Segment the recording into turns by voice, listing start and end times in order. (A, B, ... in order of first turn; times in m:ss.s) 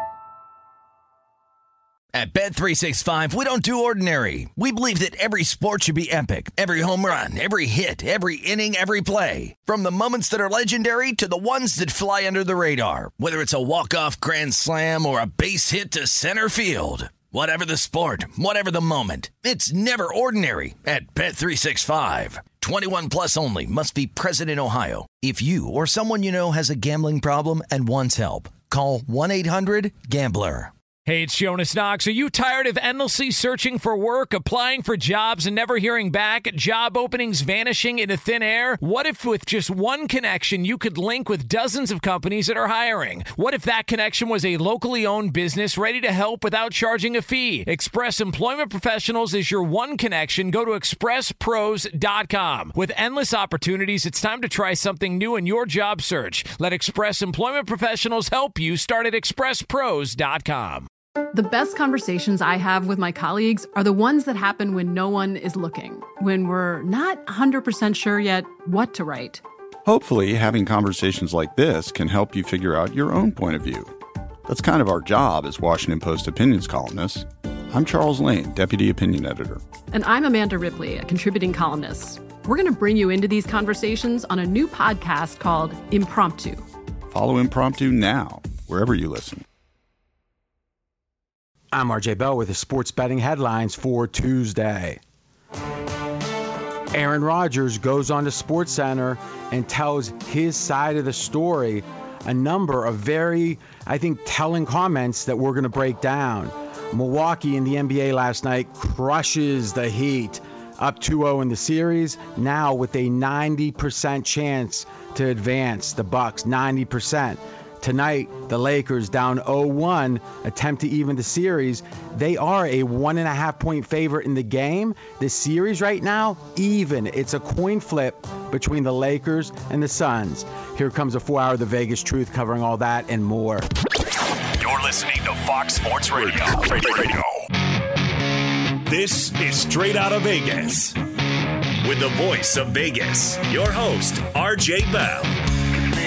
0:02.1-0:30.7 A
0:31.1-1:00.9 B
1:01.3-1:09.4 C
1:09.8-1:13.9 D
1:14.5-1:19.6 D
1:19.9-1:26.6 C
1:27.1-1:29.4 D
1:31.7-1:35.0 E
1:36.9-2:13.6 E
2:14.6-2:17.4 F
2:18.8-2:21.0 F
2:21.8-2:25.3 F